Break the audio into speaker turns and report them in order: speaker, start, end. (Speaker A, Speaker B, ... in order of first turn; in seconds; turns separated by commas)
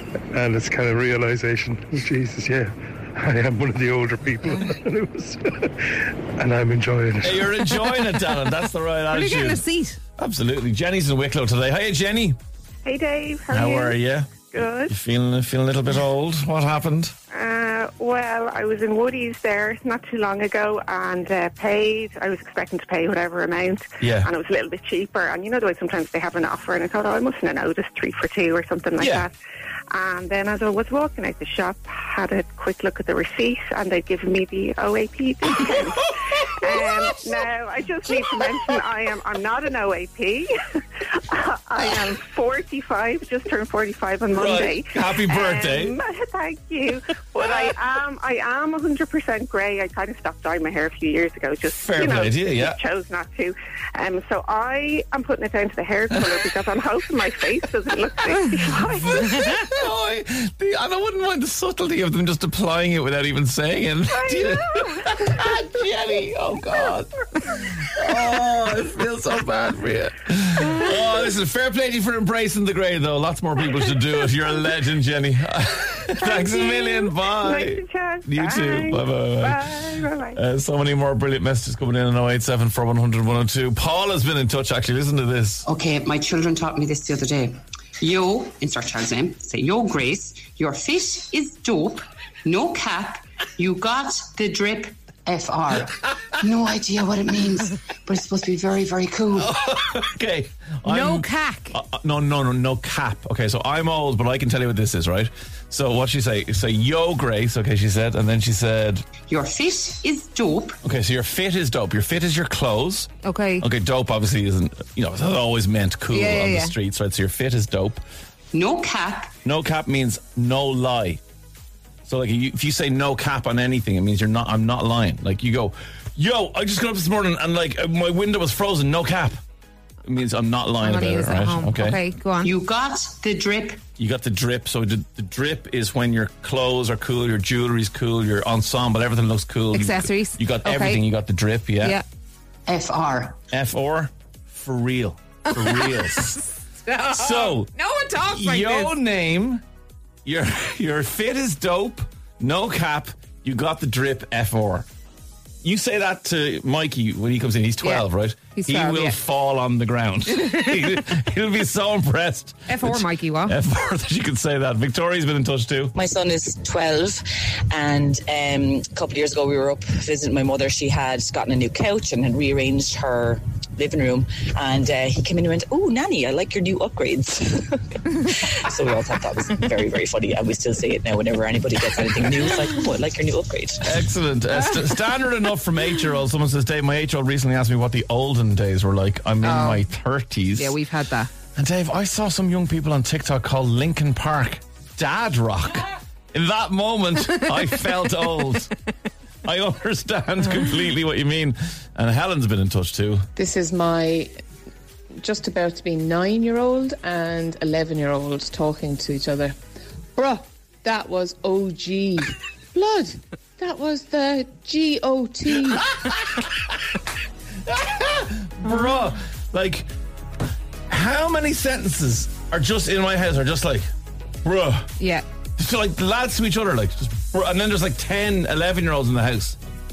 Speaker A: 0.3-8.1, Speaker B: 7.2-9.6, Speaker C: 9.1-10.0, Speaker B: 10.2-12.4, Speaker D: 12.8-14.9, Speaker B: 13.5-17.1, Speaker D: 17.3-29.4, Speaker B: 24.0-24.3, Speaker B: 29.0-29.3, Speaker D: 29.9-59.3, Speaker B: 44.3-46.0, Speaker B: 51.7-52.8, Speaker B: 56.1-56.4, Speaker B: 59.0-85.6, Speaker D: 64.1-65.4, Speaker D: 76.2-80.4, Speaker E: 85.7-95.9, Speaker E: 96.4-99.5, Speaker B: 99.4-109.0, Speaker C: 100.9-101.8, Speaker E: 109.3-110.8, Speaker B: 110.8-113.1, Speaker C: 113.2-113.7, Speaker B: 113.6-118.0, Speaker C: 116.1-116.8, Speaker E: 118.5-119.3, Speaker B: 119.4-121.2, Speaker B: 122.0-129.4, Speaker B: 130.0-132.0, Speaker C: 130.8-132.5, Speaker E: 132.4-133.8, Speaker B: 134.0-142.0, Speaker C: 139.7-141.1, Speaker E: 142.7-143.4, Speaker B: 143.5-146.4, Speaker C: 145.7-146.3, Speaker C: 146.9-148.9, Speaker B: 147.1-147.7, Speaker B: 148.3-149.6, Speaker B: 150.3-154.9, Speaker B: 155.6-165.9, Speaker C: 157.8-159.2, Speaker C: 162.7-163.5, Speaker F: 165.9-183.9, Speaker B: 183.8-190.8, Speaker C: 189.4-189.9, Speaker C: 190.6-191.3, Speaker B: 191.6-198.7, Speaker B: 199.4-203.3, Speaker G: 203.4-204.3, Speaker G: 205.2-209.6, Speaker G: 210.2-216.0, Speaker B: 217.7-219.9, Speaker B: 220.9-223.9, Speaker B: 224.4-224.9, Speaker C: 225.0-225.2, Speaker B: 225.6-229.6